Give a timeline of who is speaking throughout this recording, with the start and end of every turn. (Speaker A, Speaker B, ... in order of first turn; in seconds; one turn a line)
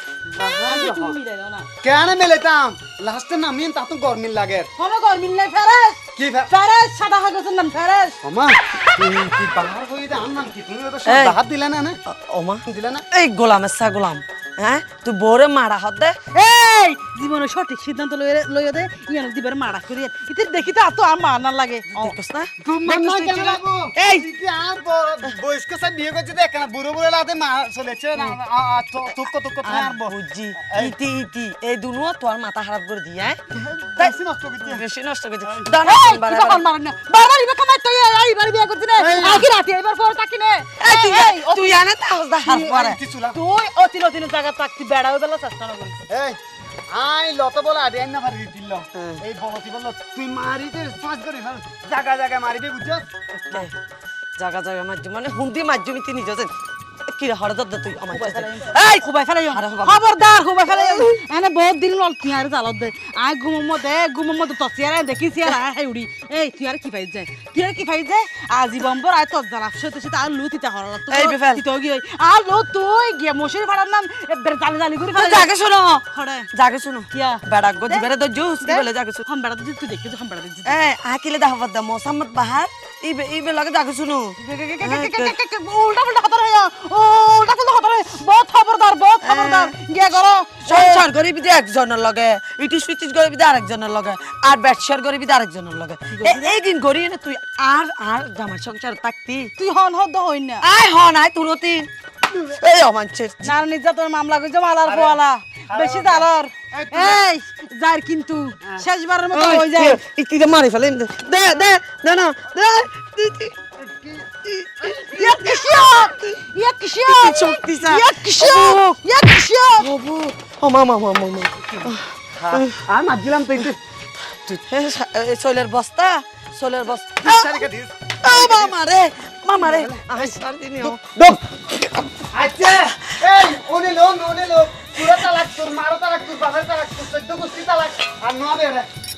Speaker A: 0.3-1.2
Speaker B: 0.7-1.6
Speaker A: 1.8-4.7
Speaker B: 4.8-8.2
Speaker A: 6.2-6.5
Speaker A: 8.2-12.0
Speaker C: 11.1-11.4
Speaker C: 12.1-16.2
Speaker A: 12.6-13.0
Speaker B: 16.4-22.1
Speaker C: 22.0-22.5
Speaker A: 22.6-30.9
Speaker B: 22.9-23.6
Speaker C: 23.9-24.3
Speaker C: 29.6-33.4
Speaker A: 33.5-34.8
Speaker C: 34.6-36.6
Speaker A: 35.4-35.7
Speaker B: 35.9-41.7
Speaker A: 39.0-39.5
Speaker C: 40.8-43.0
Speaker B: 42.5-46.0
Speaker A: 42.7-43.4
Speaker A: 46.1-46.4
Speaker A: 46.9-53.1
Speaker C: 48.9-49.2
Speaker C: 53.5-53.7
Speaker C: 54.4-56.5
Speaker C: 57.1-58.8
Speaker B: 58.1-75.5
Speaker C: 59.5-60.0
Speaker C: 60.7-61.1
Speaker C: 71.1-71.6
Speaker C: 75.1-79.2
Speaker B: 76.1-76.4
Speaker B: 77.1-78.0
Speaker B: 78.6-80.6
Speaker C: 80.6-85.4
Speaker B: 84.4-91.0
Speaker C: 89.2-99.5
Speaker B: 96.1-96.5
Speaker B: 99.6-100.6
Speaker C: 100.6-103.5
Speaker B: 103.4-109.9
Speaker A: 104.8-107.2
Speaker C: 109.3-113.6
Speaker A: 113.8-114.3
Speaker C: 114.4-116.2
Speaker B: 115.1-119.8
Speaker C: 117.0-118.9
Speaker C: 119.8-122.8
Speaker A: 122.3-123.8
Speaker C: 124.7-127.7
Speaker A: 127.2-128.8
Speaker C: 128.2-131.0
Speaker A: 129.6-131.4
Speaker A: 132.3-138.9